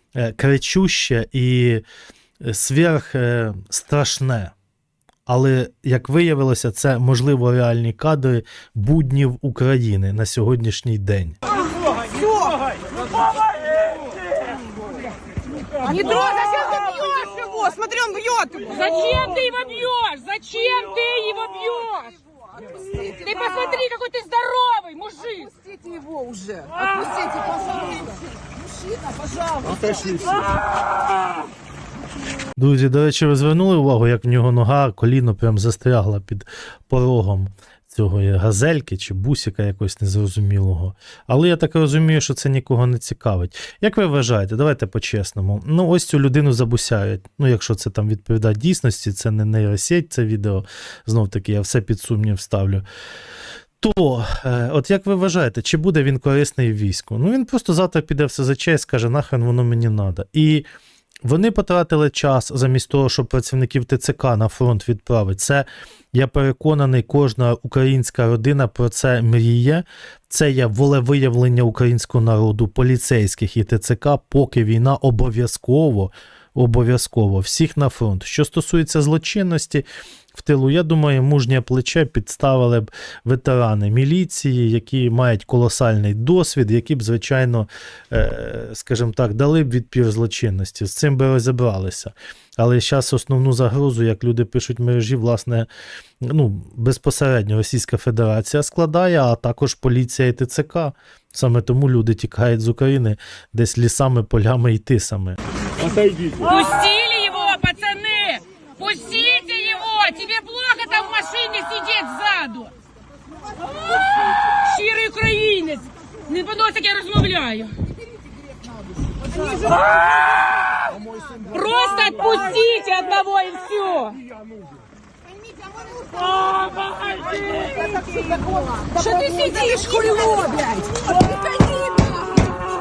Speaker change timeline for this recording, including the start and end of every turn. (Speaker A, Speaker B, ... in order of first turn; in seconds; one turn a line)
Speaker A: 0.2-1.8
Speaker A: 2.4-4.5
Speaker A: 5.3-11.4
Speaker B: 12.1-12.5
Speaker C: 15.8-17.3
Speaker B: 15.9-18.7
Speaker C: 18.7-22.2
Speaker B: 22.8-23.1
Speaker C: 23.0-25.5
Speaker B: 25.6-28.0
Speaker B: 29.1-30.4
Speaker A: 32.6-52.8
Speaker A: 53.8-60.7
Speaker A: 61.2-95.7
Speaker A: 96.2-105.4
Speaker C: 106.4-112.7
Speaker C: 114.2-117.8
Speaker B: 119.4-119.8
Speaker C: 121.5-124.2
Speaker B: 125.6-126.3
Speaker C: 126.3-128.0
Speaker B: 127.8-132.1
Speaker C: 128.9-130.7
Speaker C: 131.3-132.1